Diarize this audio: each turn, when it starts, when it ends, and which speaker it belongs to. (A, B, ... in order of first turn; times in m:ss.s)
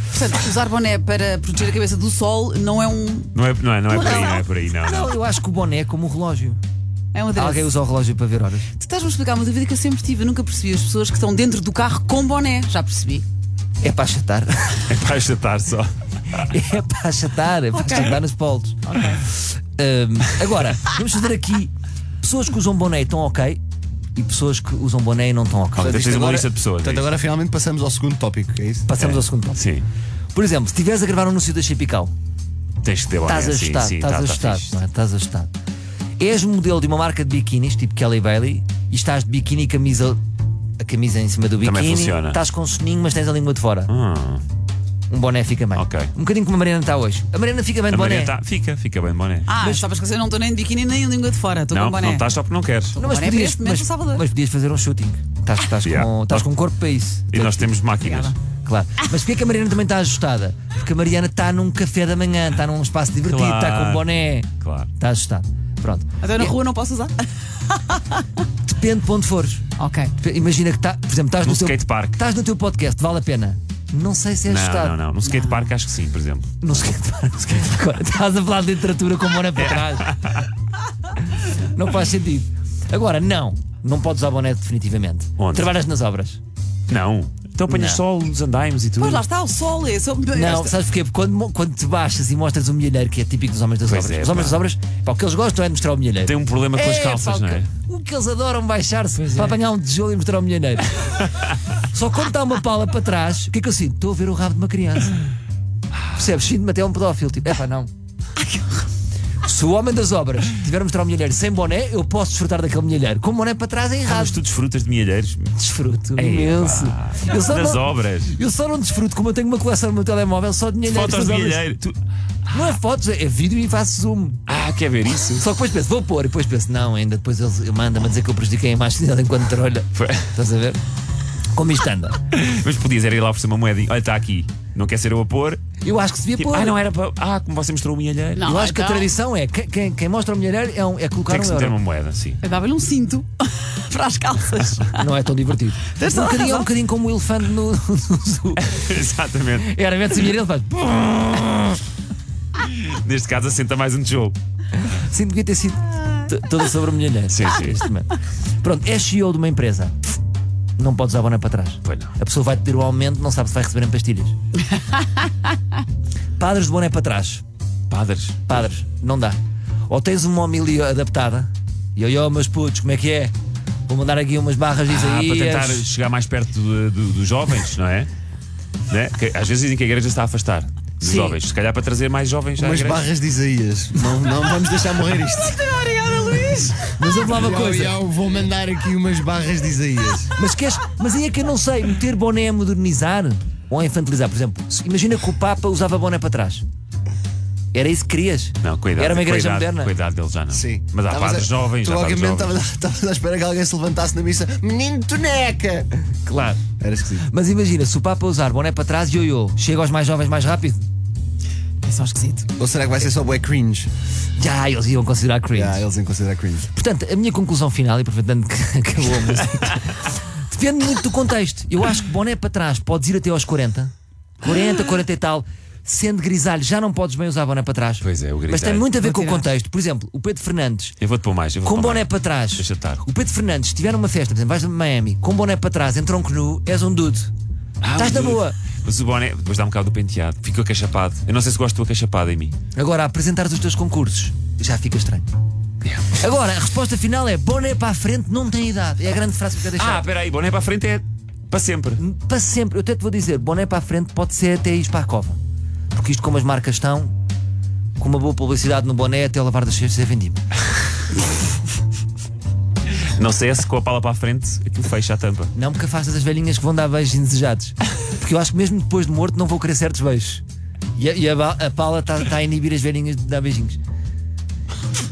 0:00.1-0:03.3 A
0:03.3-0:05.1 B
0:03.9-0:04.4 A
0:04.7-0:06.6 C
0:07.1-0:07.7 A
0:07.3-0:08.7 C
0:08.7-0:13.2 A
0:13.8-0:14.9 C
0:14.9-0:16.5 B
0:16.3-0:23.6 C
0:17.7-0:18.2 A
0:18.8-0:19.2 A
0:24.2-0:26.0 C
0:25.8-0:27.1 B
0:25.8-0:28.9 D
0:28.9-0:29.6 C
0:29.0-0:29.8 B
0:30.3-0:32.1 C
0:32.8-0:34.8 B
0:33.2-0:35.5 C
0:36.2-0:40.2 C
0:40.8-0:43.9 C
0:41.6-0:42.4 B
0:43.9-0:44.4 B
0:45.1-0:48.4 C
0:45.7-0:46.1 B
0:47.9-0:49.5 B
0:49.5-0:52.3 A
0:51.7-0:53.0 B
0:52.9-0:54.2 A
0:53.0-0:57.7 C
0:55.8-0:56.5 B
0:57.3-0:58.3 B
0:58.0-0:58.3 A
0:58.6-1:06.5 C
1:03.2-1:04.1 B
1:04.6-1:04.9 B
1:06.2-1:08.2 A
1:08.6-1:09.6 C
1:09.8-1:10.1 A
1:10.2-1:15.0 C
1:11.4-1:12.2 B
1:14.5-1:16.5 B
1:15.2-1:15.7 A
1:16.6-1:20.2 C
1:19.7-1:20.4 B
1:21.4-1:26.4 C
1:25.4-1:25.7 B
1:26.9-1:29.2 B
1:27.7-1:28.0 C
1:29.0-1:30.7 A
1:30.3-1:45.2 C
1:33.8-1:34.6 B
1:36.2-1:37.7 B
1:39.2-1:39.6 B
1:45.9-1:46.4 B
1:46.2-1:47.9 C
1:49.4-1:54.4 C
1:54.0-1:55.5 B
1:55.5-2:01.6 C
1:56.1-1:58.4 B
2:00.9-2:02.0 B
2:02.5-2:04.4 C
2:04.5-2:05.4 B
2:05.4-2:10.8 C
2:09.9-2:10.3 B
2:11.5-2:12.2 C
2:12.3-2:15.6 B
2:15.8-2:16.8 C
2:16.4-2:18.5 B
2:18.4-2:19.1 A
2:18.4-2:21.8 C
2:21.3-2:22.4 B
2:22.4-2:25.1 A
2:24.9-2:28.8 C
2:25.9-2:26.7 A
2:28.6-2:29.7 B
2:29.6-2:31.8 C
2:32.6-2:34.4 B
2:34.8-2:40.0 C
2:37.3-2:37.8 B
2:40.8-2:44.3 C
2:41.8-2:42.1 B
2:46.4-2:47.4 C
2:47.9-2:48.7 B
2:48.5-2:53.3 C
2:53.9-2:55.9 C
2:54.9-2:58.1 B
2:58.9-3:03.0 B
3:01.0-3:01.4 C
3:02.6-3:05.6 D
3:05.3-3:07.0 A
3:07.0-3:08.0 C
3:07.0-3:10.3 D
3:10.4-3:16.6 C
3:17.7-3:19.9 C
3:18.6-3:22.6 B
3:20.5-3:25.9 D
3:26.2-3:26.6 C
3:26.8-3:27.3 D
3:27.2-3:30.8 C
3:31.8-3:32.5 A
3:32.6-3:33.9 D
3:34.4-3:35.8 C
3:35.5-3:36.7 D
3:36.7-3:51.0 C
3:48.0-3:48.9 B
3:49.0-3:49.5 A
3:51.0-3:53.0 B
3:51.6-3:57.3 C
3:57.8-4:02.6 B
3:57.9-3:58.6 C
4:02.7-4:05.3 C
4:06.1-4:10.1 C
4:09.7-4:12.0 B
4:12.0-4:15.4 C
4:15.9-4:17.1 C
4:18.0-4:20.4 C
4:23.2-4:25.5 B
4:25.5-4:30.4 C
4:31.0-4:33.8 C